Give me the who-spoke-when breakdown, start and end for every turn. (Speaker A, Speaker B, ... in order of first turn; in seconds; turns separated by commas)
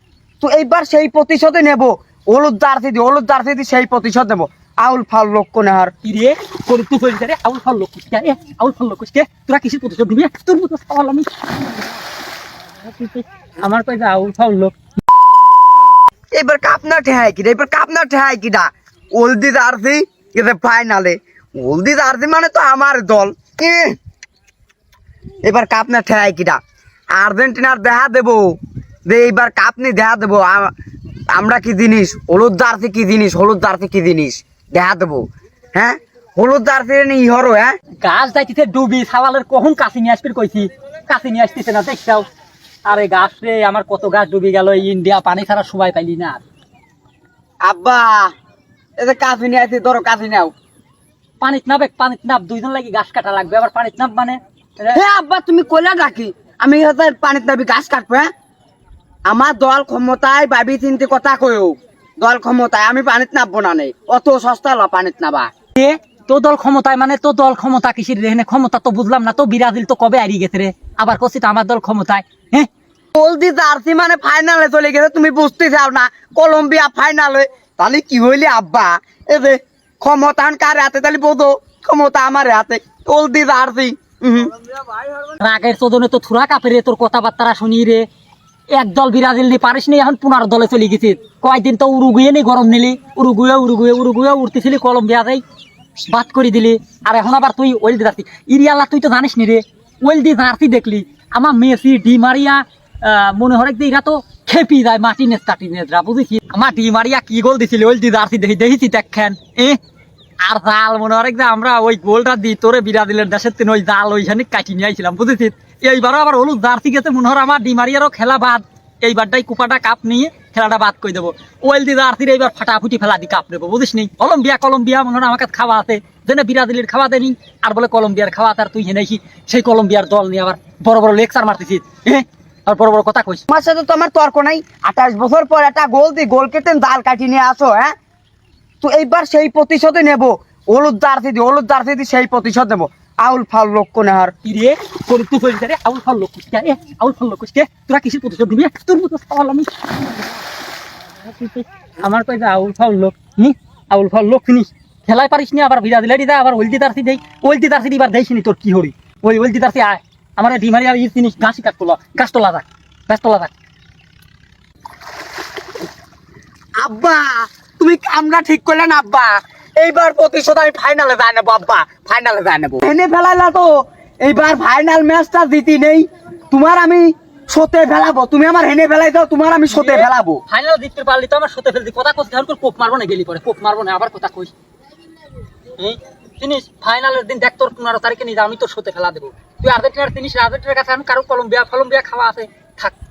Speaker A: 0.4-5.9, Speaker B: 6.0-12.0, Speaker B: 12.8-14.8, Speaker A: 16.3-24.0, Speaker A: 25.4-26.6, Speaker A: 27.1-28.6, Speaker A: 29.1-30.7, Speaker A: 31.3-37.7, Speaker B: 38.0-42.3, Speaker B: 42.9-46.4, Speaker A: 47.6-48.3, Speaker A: 49.0-50.5, Speaker B: 51.4-55.0, Speaker A: 54.9-58.3, Speaker A: 59.3-65.5, Speaker B: 65.8-72.7, Speaker A: 73.2-84.7, Speaker B: 85.4-88.1, Speaker B: 88.7-95.4, Speaker B: 96.1-109.8, Speaker B: 110.4-133.4, Speaker A: 133.5-137.9, Speaker A: 138.8-144.3, Speaker B: 144.4-150.4, Speaker B: 151.2-163.5, Speaker A: 166.8-180.4, Speaker B: 179.7-184.5, Speaker B: 185.7-192.9